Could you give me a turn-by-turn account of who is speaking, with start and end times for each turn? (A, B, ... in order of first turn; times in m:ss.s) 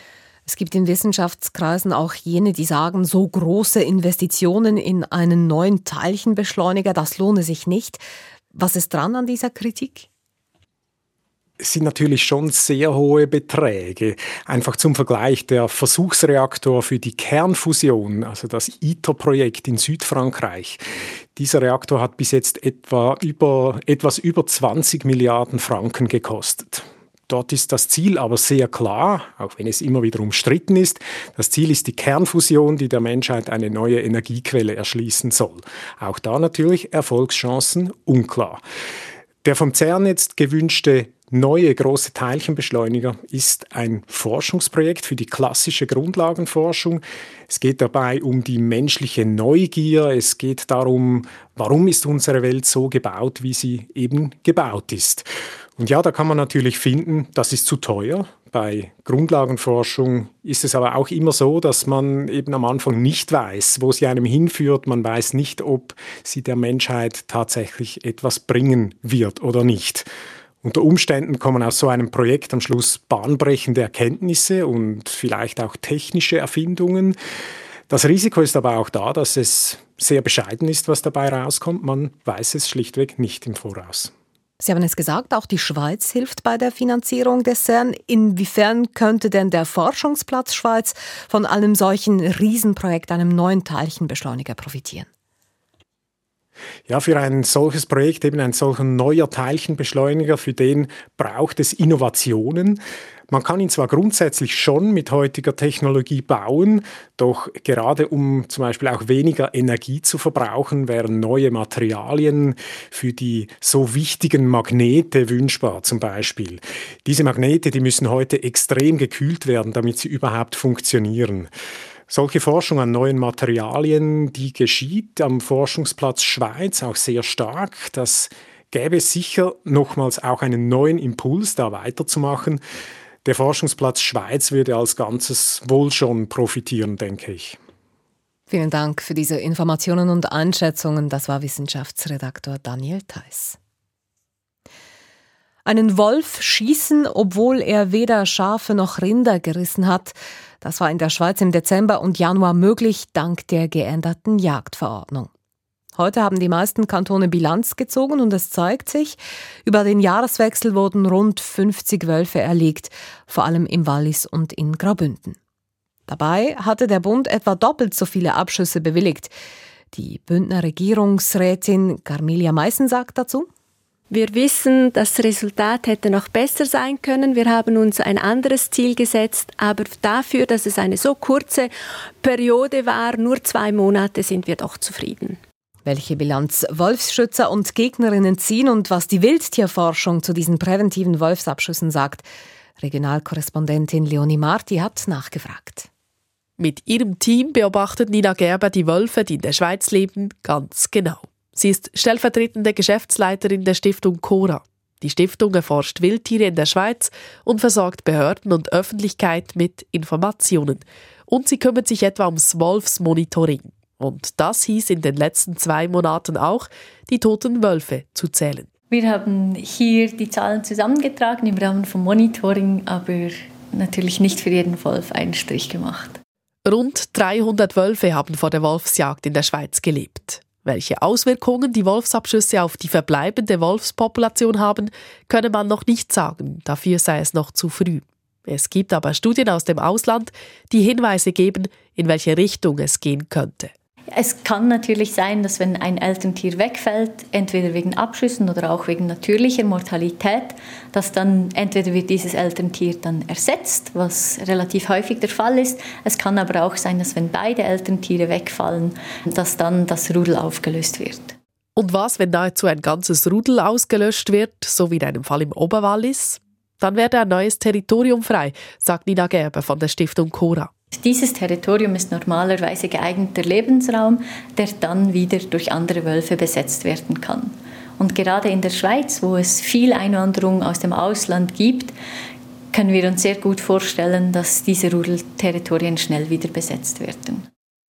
0:00.4-0:08.0 A
0:08.5-0:10.1 A
0:11.6-0:20.8 B
0:21.4-0:38.6 B
0:39.4-1:10.1 B
1:10.6-1:17.2 B
1:17.9-1:24.1 B
1:24.6-1:35.1 A
1:36.9-2:01.5 B
2:02.1-2:12.6 B
2:13.2-2:17.6 B
2:18.5-2:23.6 A
2:25.6-2:35.3 A
2:36.0-2:45.4 A
2:46.1-2:49.3 A
2:49.9-2:53.5 A
2:54.1-3:05.4 C
3:05.8-3:12.2 A
3:12.8-3:15.9 A
3:16.6-3:38.7 D
3:38.9-3:46.2 E
3:46.6-4:03.7 D
4:04.1-4:21.4 E
4:21.8-4:30.7 D
4:30.9-4:41.9 E
4:42.7-4:47.5 E